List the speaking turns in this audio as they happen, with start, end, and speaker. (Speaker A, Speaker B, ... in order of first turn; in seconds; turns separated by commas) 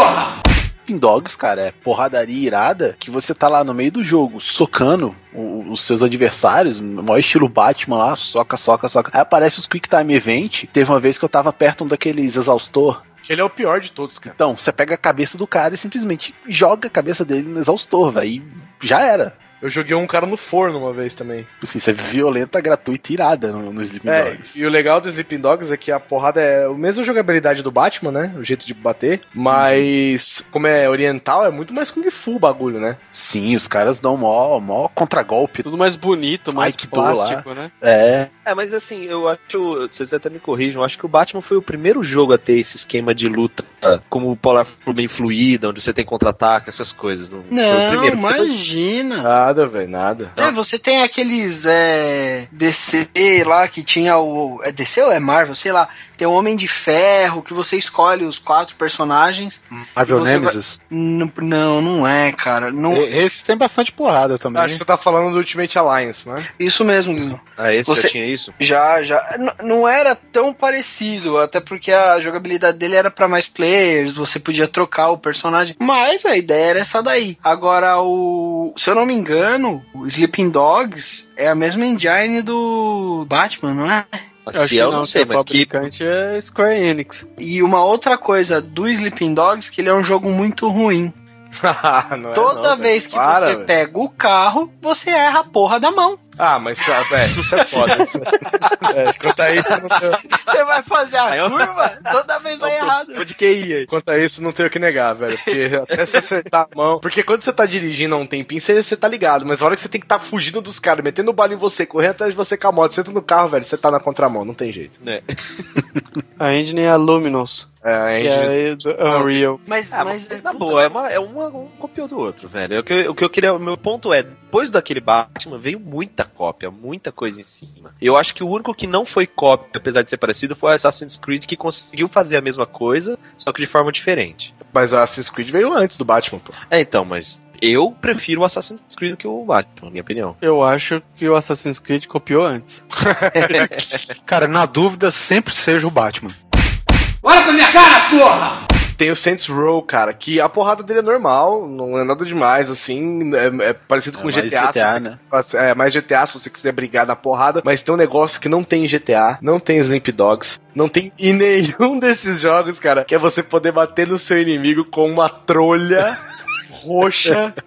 Speaker A: 0.9-13.0, Speaker B: 13.2-14.4, Speaker A: 14.3-19.4, Speaker B: 19.6-21.5, Speaker A: 21.6-24.5, Speaker B: 24.1-33.0, Speaker A: 29.5-29.9, Speaker A: 33.1-35.7, Speaker C: 35.6-37.7, Speaker A: 36.5-38.3, Speaker D: 38.5-48.6, Speaker E: 47.5-49.3, Speaker B: 49.2-50.4, Speaker E: 50.4-63.1, Speaker F: 59.7-60.8, Speaker F: 62.9-64.8, Speaker B: 64.5-66.5, Speaker E: 66.6-84.2, Speaker D: 67.6-68.5, Speaker D: 84.5-85.7, Speaker C: 84.5-87.3, Speaker E: 87.4-91.1, Speaker B: 91.6-93.7, Speaker E: 92.3-96.2, Speaker B: 96.4-98.3, Speaker E: 97.9-98.9, Speaker B: 98.9-100.2, Speaker E: 100.2-103.3, Speaker D: 101.3-103.9, Speaker B: 103.9-115.0, Speaker D: 105.9-106.2, Speaker D: 115.0-115.6, Speaker C: 116.4-117.7, Speaker B: 117.8-119.3, Speaker C: 118.2-119.6, Speaker E: 119.7-120.9, Speaker D: 119.9-134.5, Speaker B: 134.7-136.6, Speaker D: 136.7-140.4, Speaker C: 140.4-142.8, Speaker B: 143.1-143.5, Speaker D: 143.4-144.0, Speaker F: 144.3-146.3, Speaker B: 149.0-167.6, Speaker A: 154.2-155.2